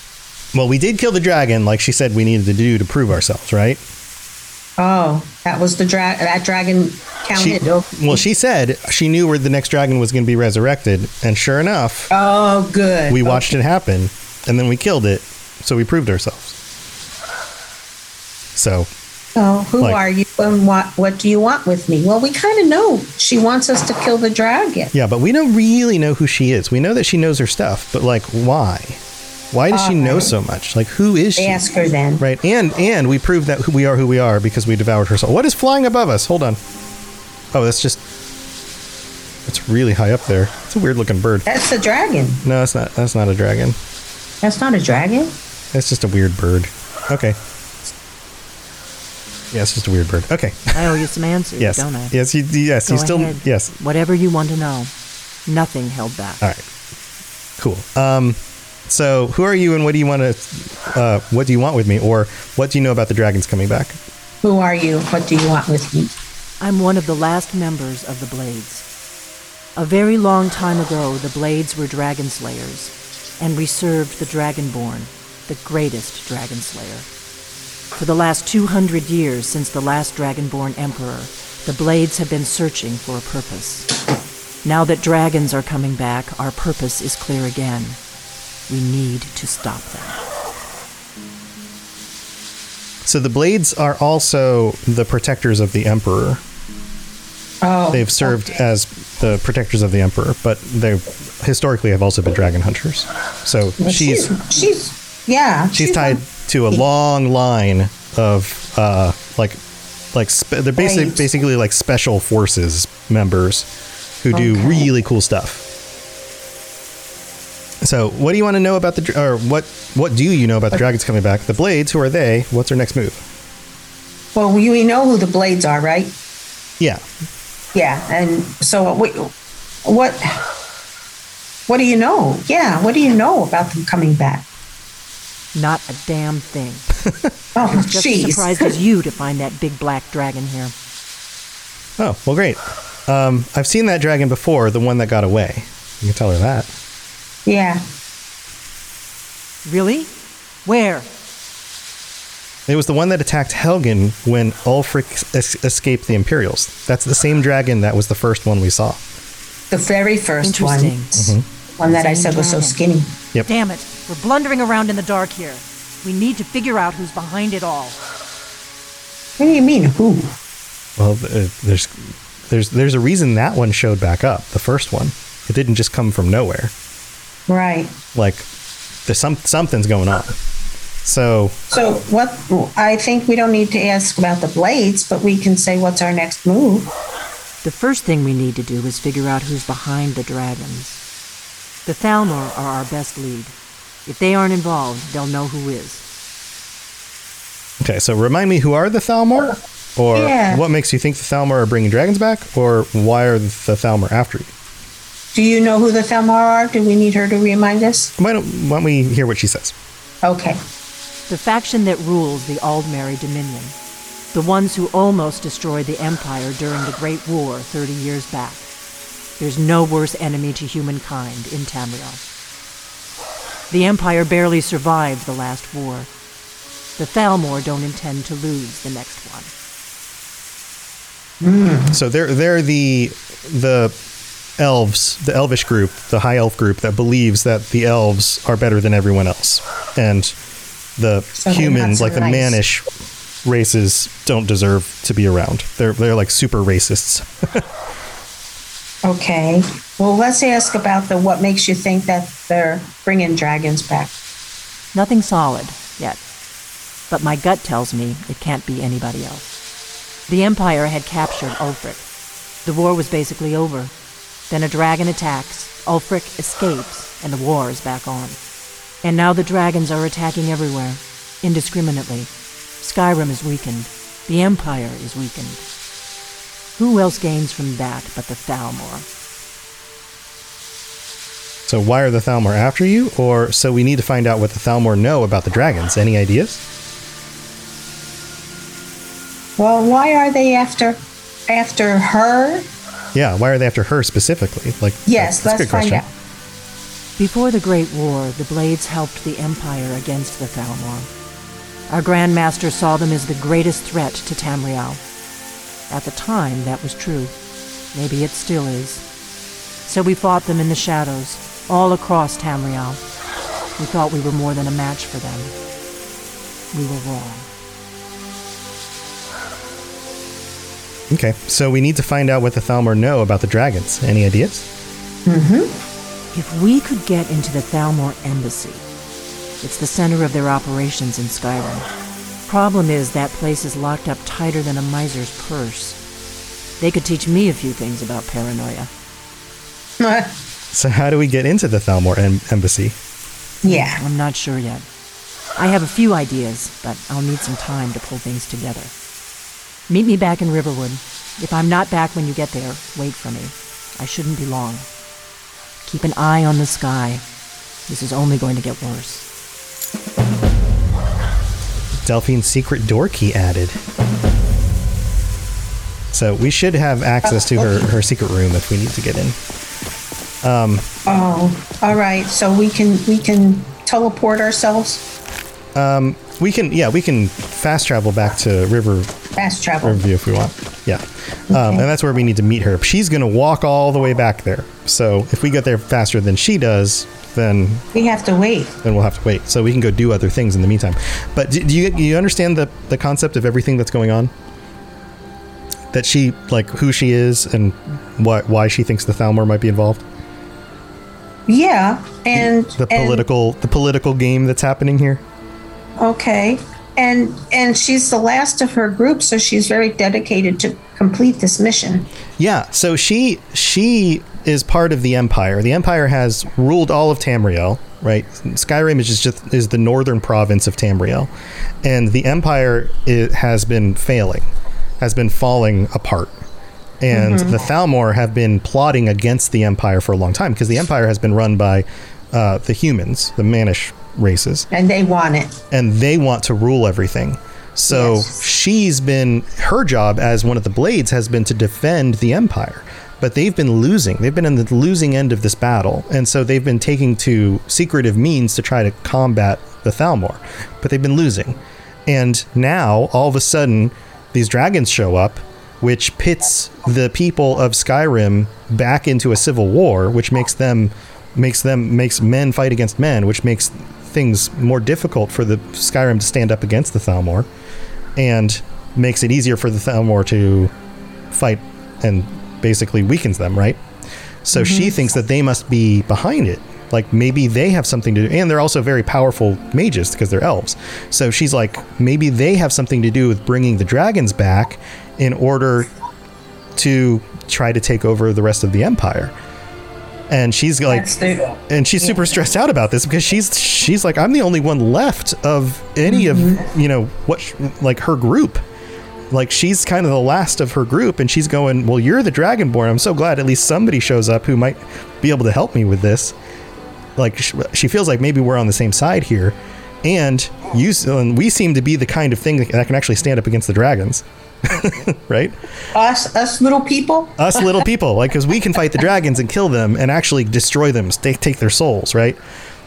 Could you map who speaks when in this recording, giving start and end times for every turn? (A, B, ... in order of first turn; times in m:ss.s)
0:00.5-0:03.8 A
0:04.8-0:08.2 B
0:07.4-0:12.1 A
0:12.1-0:13.5 B
0:13.1-0:16.6 A
0:18.6-0:18.9 A
0:19.4-0:24.9 B
0:24.9-0:29.0 A
0:29.5-0:31.6 A
0:29.7-0:30.3 B
0:31.4-0:32.2 B
0:32.2-0:36.6 A
0:37.5-0:38.0 A
0:39.5-0:41.5 A
0:41.5-0:42.4 B
0:42.4-0:43.8 A
0:44.4-0:45.4 B
0:45.7-0:47.4 A
0:49.5-0:50.9 A
0:50.7-0:52.2 C
0:51.6-0:53.7 A
0:52.9-0:54.9 C
0:55.5-0:56.4 C
0:57.6-1:04.0 A
1:04.4-1:06.1 B
1:06.6-1:08.8 C
1:09.8-1:17.1 C
1:18.0-1:23.9 C
1:24.6-1:28.0 C
1:28.7-1:30.2 C
1:33.0-1:36.4 A
1:37.6-1:38.5 B
1:37.9-1:44.4 A
1:43.8-1:46.8 B
1:45.7-1:49.6 A
1:50.1-1:53.7 A
1:50.8-1:51.3 B
1:54.2-1:55.6 A
1:54.3-1:54.9 B
1:57.8-2:03.2 A
2:04.4-2:06.1 B
2:07.7-2:09.3 B
2:09.8-2:10.4 B
2:11.7-2:14.5 B
2:15.5-2:16.9 C
2:17.6-2:18.7 B
2:17.6-2:20.7 C
2:22.0-2:26.7 A
2:27.5-2:27.8 B
2:29.6-2:30.1 C
2:30.6-2:31.1 C
2:32.7-2:39.0 A
2:39.7-2:43.2 B
2:40.4-2:41.2 C
2:41.2-2:41.4 A
2:41.8-2:42.8 C
2:43.4-2:48.0 C
2:49.4-2:50.3 B
2:51.0-2:56.7 A
2:57.5-2:58.0 B
2:58.2-2:58.5 A
2:59.1-3:00.4 A
3:01.0-3:01.6 A
3:01.7-3:06.9 B
3:07.6-3:11.0 C
3:11.9-3:13.6 C
3:14.1-3:16.0 C
3:17.8-3:24.5 A
3:20.1-3:20.6 B
3:25.3-3:28.1 B
3:28.2-3:29.7 A
3:30.2-3:30.6 B
3:31.3-3:33.7 C
3:34.3-3:38.7 C
3:39.4-3:42.2 C
3:43.7-3:46.1 C
3:47.0-3:49.5 C
3:51.4-3:52.0 B
3:51.9-3:54.0 A
3:54.6-4:00.4 A
4:01.0-4:02.9 A
4:01.4-4:02.6 B
4:03.4-4:07.6 A
4:09.0-4:14.1 B
4:14.9-4:16.2 C
4:17.1-4:19.6 C
4:20.3-4:22.1 C
4:22.6-4:23.9 C
4:24.5-4:28.4 C
4:29.0-4:32.3 C
4:32.8-4:35.6 C
4:36.8-4:39.1 C
4:41.7-4:46.6 A
4:49.6-4:52.7 B
4:53.1-4:56.0 A
4:55.1-4:56.1 B
4:57.2-5:01.1 C
5:01.9-5:05.0 C
5:05.9-5:07.3 C
5:07.9-5:09.0 C
5:09.9-5:13.0 C
5:13.8-5:15.5 C
5:16.7-5:17.5 C
5:21.1-5:24.7 A
5:25.3-5:25.8 B
5:26.3-5:28.8 C
5:29.6-5:31.9 C
5:32.5-5:36.0 C
5:36.8-5:38.9 C
5:40.0-5:40.3 B
5:40.7-5:43.0 A
5:43.6-5:44.0 B
5:43.7-5:44.8 C
5:45.6-5:48.9 C
5:49.9-5:54.9 C
5:55.9-5:57.2 C
5:57.9-5:59.3 C
6:02.0-6:03.8 A
6:06.1-6:09.4 A
6:07.3-6:07.8 B
6:10.4-6:10.9 A
6:11.1-6:15.0 B
6:15.8-6:19.1 A
6:19.4-6:20.0 B
6:19.8-6:27.8 A
6:21.5-6:21.9 B
6:27.9-6:28.8 B
6:28.8-6:34.3 A
6:35.9-6:40.0 A
6:41.5-6:43.2 B
6:42.3-6:45.2 A
6:46.0-6:52.1 B
6:52.4-7:01.3 A
7:01.8-7:06.4 A
7:07.0-7:14.7 A
7:07.1-7:07.6 B
7:14.7-7:15.6 B
7:15.7-7:47.5 A
7:17.9-7:18.3 B
7:48.2-7:50.7 A
7:51.3-7:53.8 A
7:54.4-8:05.9 A
7:54.5-7:55.0 B
8:06.8-8:09.3 A
8:10.3-8:11.1 A
8:10.9-8:12.2 B
8:11.7-8:18.6 A
8:16.1-8:16.6 B
8:19.3-8:26.4 A
8:27.2-8:35.6 A
8:35.9-8:37.8 B
8:37.4-8:42.4 A